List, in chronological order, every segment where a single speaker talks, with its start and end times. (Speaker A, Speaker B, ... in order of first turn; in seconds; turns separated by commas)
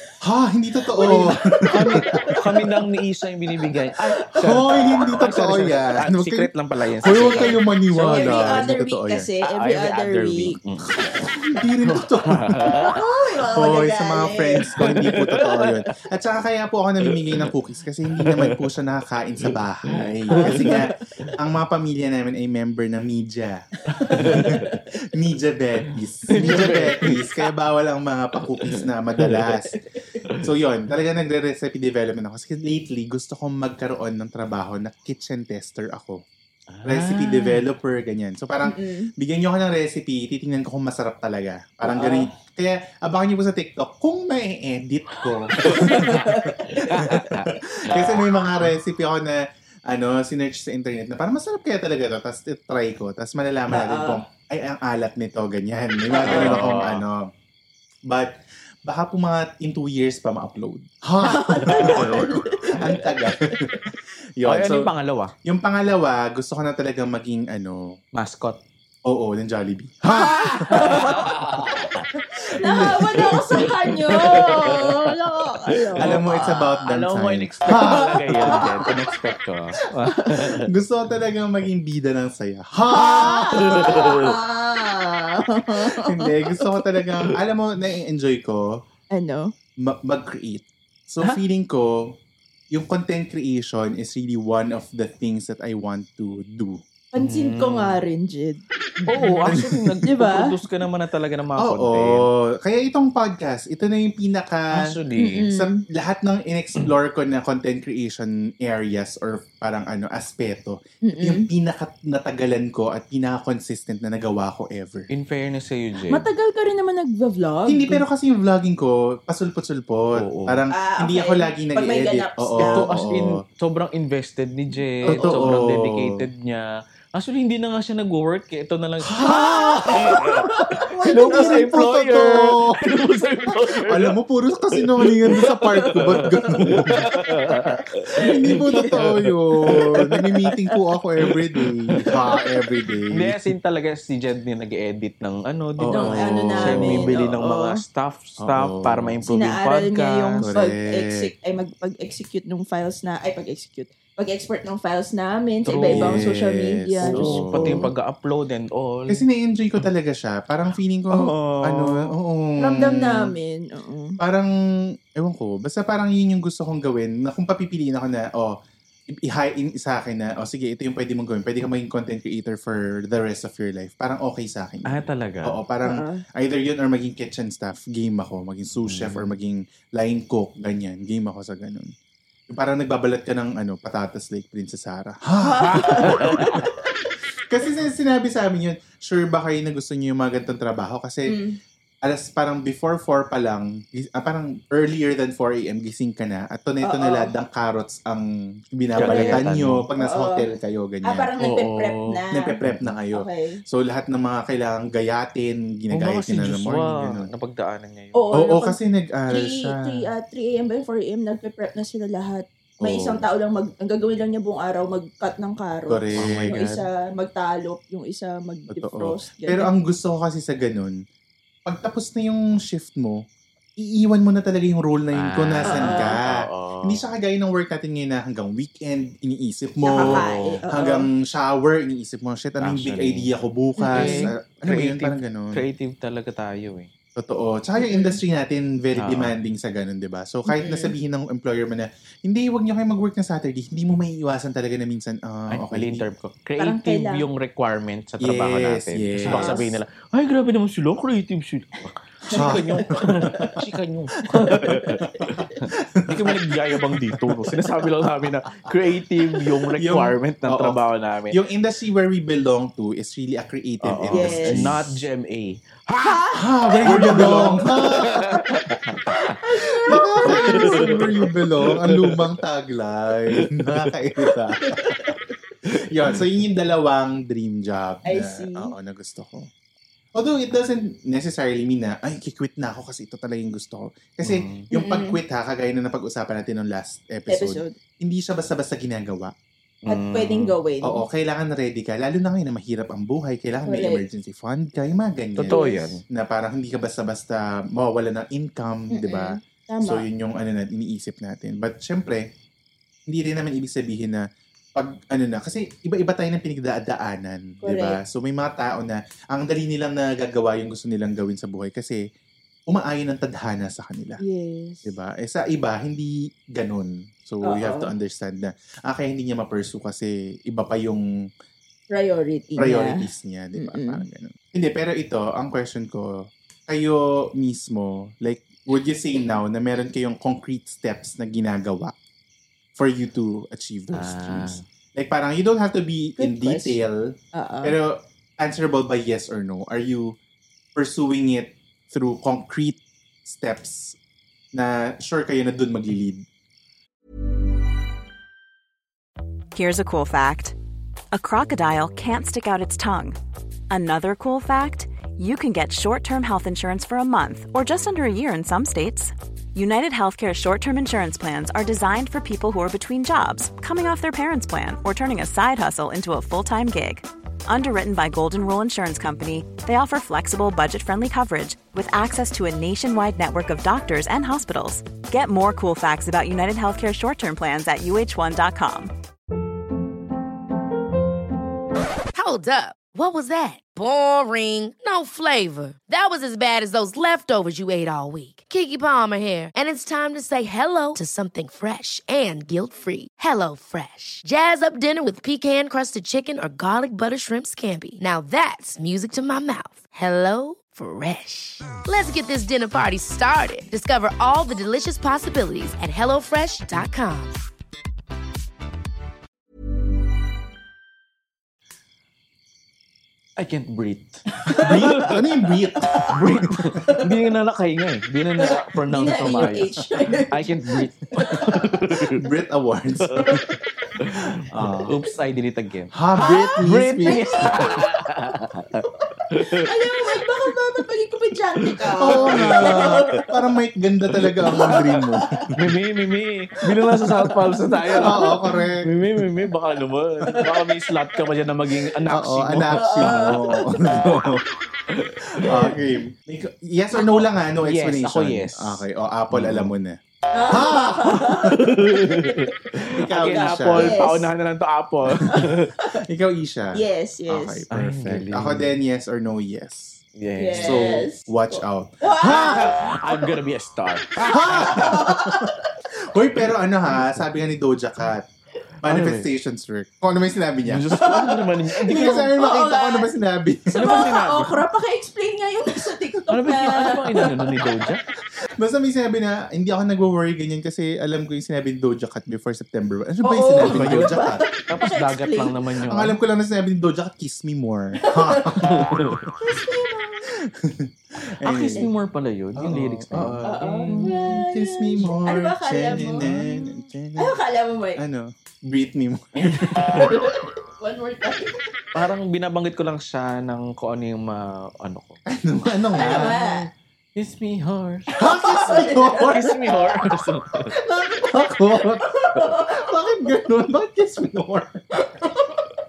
Speaker A: 0.2-2.4, Speaker B: 1.0-2.4, Speaker C: 1.0-8.6, Speaker A: 4.4-6.5, Speaker A: 7.0-9.3, Speaker B: 7.0-10.6, Speaker C: 9.4-11.0, Speaker A: 11.2-12.6, Speaker C: 11.9-12.9, Speaker B: 12.8-14.9, Speaker A: 13.5-29.7, Speaker C: 14.8-15.6, Speaker C: 17.1-17.5, Speaker C: 18.1-18.6, Speaker C: 19.9-21.3, Speaker B: 20.4-20.8, Speaker B: 23.9-24.7, Speaker C: 24.1-24.7, Speaker C: 26.3-27.3, Speaker B: 26.4-26.9, Speaker C: 28.6-29.5, Speaker A: 30.4-36.2, Speaker C: 36.7-37.6, Speaker A: 36.8-46.5, Speaker B: 38.6-39.1, Speaker B: 41.8-42.3, Speaker B: 45.6-47.3, Speaker C: 45.6-48.2, Speaker A: 47.8-57.3, Speaker B: 53.7-54.2, Speaker B: 56.1-56.7, Speaker C: 56.2-57.0, Speaker A: 58.0-63.8, Speaker B: 61.2-63.7, Speaker C: 61.7-62.3, Speaker A: 64.4-64.9, Speaker C: 64.5-65.3, Speaker A: 65.4-68.0, Speaker C: 68.1-68.6, Speaker A: 69.0-71.1, Speaker B: 70.1-71.8, Speaker C: 70.6-72.0, Speaker B: 72.5-76.1, Speaker A: 72.6-74.4, Speaker C: 74.1-75.1, Speaker C: 75.9-80.7, Speaker A: 76.0-78.9, Speaker B: 77.7-78.9, Speaker A: 80.7-84.1, Speaker B: 82.9-86.6, Speaker C: 83.6-84.3, Speaker A: 85.9-88.7, Speaker B: 89.1-89.5, Speaker A: 89.8-92.2, Speaker A: 92.7-96.8, Speaker B: 97.1-98.6, Speaker C: 97.2-98.0, Speaker C: 99.1-102.2, Speaker A: 99.5-99.8, Speaker B: 100.0-100.5, Speaker A: 101.6-104.9, Speaker C: 104.7-105.4, Speaker B: 105.2-105.8, Speaker A: 105.5-115.1, Speaker B: 111.0-111.5, Speaker C: 115.1-116.2, Speaker B: 116.1-118.0, Speaker A: 117.7-123.4, Speaker C: 120.1-120.6, Speaker B: 120.7-122.9, Speaker C: 122.6-134.2, Speaker B: 125.0-125.5, Speaker A: 125.1-126.1, Speaker A: 129.1-132.8, Speaker B: 129.2-131.7, Speaker A: 133.5-137.0, Speaker C: 134.7-140.2, Speaker B: 135.4-136.7, Speaker A: 138.2-143.4, Speaker B: 138.2-138.9, Speaker C: 141.5-142.2, Speaker C: 143.1-150.4, Speaker A: 145.8-147.2, Speaker B: 145.9-147.8, Speaker A: 148.4-149.3, Speaker B: 149.3-157.9, Speaker A: 150.4-151.3, Speaker C: 155.7-156.3, Speaker A: 155.8-157.9, Speaker C: 157.0-159.2, Speaker A: 159.1-163.3, Speaker C: 161.1-162.1, Speaker B: 162.6-164.2, Speaker A: 164.2-164.5, Speaker A: 165.2-168.6, Speaker A: 169.1-181.9, Speaker C: 174.9-175.6, Speaker B: 175.8-176.2, Speaker C: 178.8-179.3, Speaker A: 182.5-186.5, Speaker B: 185.4-186.8, Speaker C: 185.8-186.6, Speaker A: 187.5-191.3, Speaker B: 191.3-191.6, Speaker A: 192.0-201.3, Speaker B: 196.8-197.3, Speaker C: 199.0-199.8, Speaker B: 199.0-199.4, Speaker B: 200.0-200.5, Speaker B: 201.0-202.5, Speaker C: 201.4-203.0, Speaker A: 202.3-207.3, Speaker B: 203.1-203.6, Speaker C: 205.9-208.5, Speaker B: 208.1-208.8, Speaker A: 208.3-210.0, Speaker B: 209.3-219.7, Speaker A: 212.8-213.2, Speaker A: 215.9-216.5, Speaker C: 216.2-216.9, Speaker A: 218.7-220.9, Speaker A: 221.7-223.2, Speaker A: 223.8-235.6, Speaker C: 225.1-227.0, Speaker B: 225.6-226.2, Speaker B: 229.8-231.1, Speaker C: 230.0-230.6, Speaker C: 232.6-233.3, Speaker B: 233.8-234.3, Speaker C: 233.9-236.9, Speaker A: 237.2-246.0, Speaker B: 237.8-238.2, Speaker C: 238.9-239.3, Speaker B: 240.5-240.9, Speaker C: 245.5-255.0, Speaker B: 246.6-247.2, Speaker A: 248.2-249.7, Speaker B: 249.2-249.6, Speaker A: 252.2-253.6, Speaker B: 252.3-253.5, Speaker A: 254.3-258.7, Speaker B: 254.7-255.6, Speaker C: 255.6-261.4, Speaker A: 259.8-260.8, Speaker A: 261.3-264.9, Speaker C: 263.8-269.2, Speaker B: 264.1-264.7, Speaker B: 266.0-268.2, Speaker A: 266.3-268.4, Speaker B: 269.1-271.3, Speaker A: 269.9-274.8, Speaker C: 270.2-272.3, Speaker C: 273.4-273.9, Speaker B: 274.6-275.2, Speaker A: 275.7-279.5, Speaker B: 278.1-278.7, Speaker A: 280.1-289.3, Speaker C: 284.2-284.7, Speaker B: 284.7-285.2, Speaker B: 287.3-287.7, Speaker C: 289.8-290.5, Speaker B: 289.9-291.0, Speaker A: 290.8-302.3, Speaker B: 293.6-294.0, Speaker C: 295.4-296.0, Speaker B: 295.5-295.9, Speaker B: 298.9-300.0, Speaker A: 303.1-304.2, Speaker A: 304.8-312.0, Speaker B: 307.6-308.0, Speaker A: 312.7-314.2, Speaker B: 314.2-314.9, Speaker A: 314.8-321.0, Speaker B: 317.4-317.9, Speaker B: 321.9-323.0, Speaker A: 322.6-331.9, Speaker B: 323.6-324.0, Speaker A: 332.7-340.2, Speaker C: 333.9-334.6, Speaker B: 336.2-336.8, Speaker B: 337.3-337.8, Speaker A: 340.7-344.0, Speaker A: 344.5-346.2, Speaker D: 349.5-350.5, Speaker D: 351.1-353.2, Speaker D: 353.7-378.9, Speaker E: 382.1-407.4, Speaker C: 413.4-415.1, Speaker B: 414.4-415.1, Speaker A: 414.6-416.7, Speaker B: 415.7-416.1, Speaker C: 416.1-419.7, Speaker B: 416.8-417.1, Speaker B: 418.4-421.6, Speaker C: 420.3-422.3, Speaker A: 421.2-423.4, Speaker C: 424.0-425.9, Speaker A: 424.4-424.9, Speaker A: 425.9-427.6, Speaker B: 426.2-427.9, Speaker C: 426.6-430.2, Speaker B: 428.9-433.3, Speaker C: 431.6-433.2, Speaker A: 432.0-435.6, Speaker C: 434.2-434.8, Speaker B: 434.5-435.5, Speaker C: 435.5-443.4, Speaker B: 437.8-438.4, Speaker A: 438.0-438.9, Speaker A: 442.1-444.4, Speaker B: 442.7-443.9, Speaker C: 443.9-444.4, Speaker C: 444.9-445.8, Speaker A: 445.4-451.6, Speaker C: 447.6-449.7, Speaker B: 450.3-452.4, Speaker C: 451.4-455.7, Speaker A: 452.9-454.1, Speaker B: 453.2-454.3, Speaker B: 455.2-455.9, Speaker A: 455.9-460.0, Speaker B: 456.7-457.6, Speaker C: 457.7-458.7, Speaker C: 460.2-461.0, Speaker B: 460.4-463.2, Speaker A: 460.6-462.7, Speaker C: 462.2-465.0, Speaker B: 464.2-465.6, Speaker A: 464.3-465.5, Speaker A: 466.1-468.3, Speaker A: 468.8-474.1, Speaker C: 468.8-469.3, Speaker C: 470.6-472.3, Speaker B: 471.0-473.1, Speaker B: 473.7-477.6, Speaker C: 473.7-474.6, Speaker C: 476.3-478.0, Speaker A: 478.6-484.4, Speaker B: 483.2-485.5, Speaker C: 483.6-486.2, Speaker A: 485.9-489.0, Speaker B: 488.0-488.7, Speaker C: 488.6-489.3, Speaker B: 489.4-490.3, Speaker A: 490.4-491.9, Speaker C: 491.4-494.1, Speaker A: 492.6-497.4, Speaker B: 493.4-496.2, Speaker C: 495.9-496.5, Speaker B: 497.2-498.0, Speaker A: 497.9-499.7, Speaker C: 499.4-500.2, Speaker B: 499.9-501.6, Speaker C: 501.9-505.2, Speaker A: 505.3-506.4, Speaker C: 505.9-510.7, Speaker B: 505.9-506.7, Speaker B: 508.1-509.4, Speaker A: 508.1-509.7, Speaker B: 510.8-513.0, Speaker A: 511.1-515.3, Speaker B: 515.0-515.5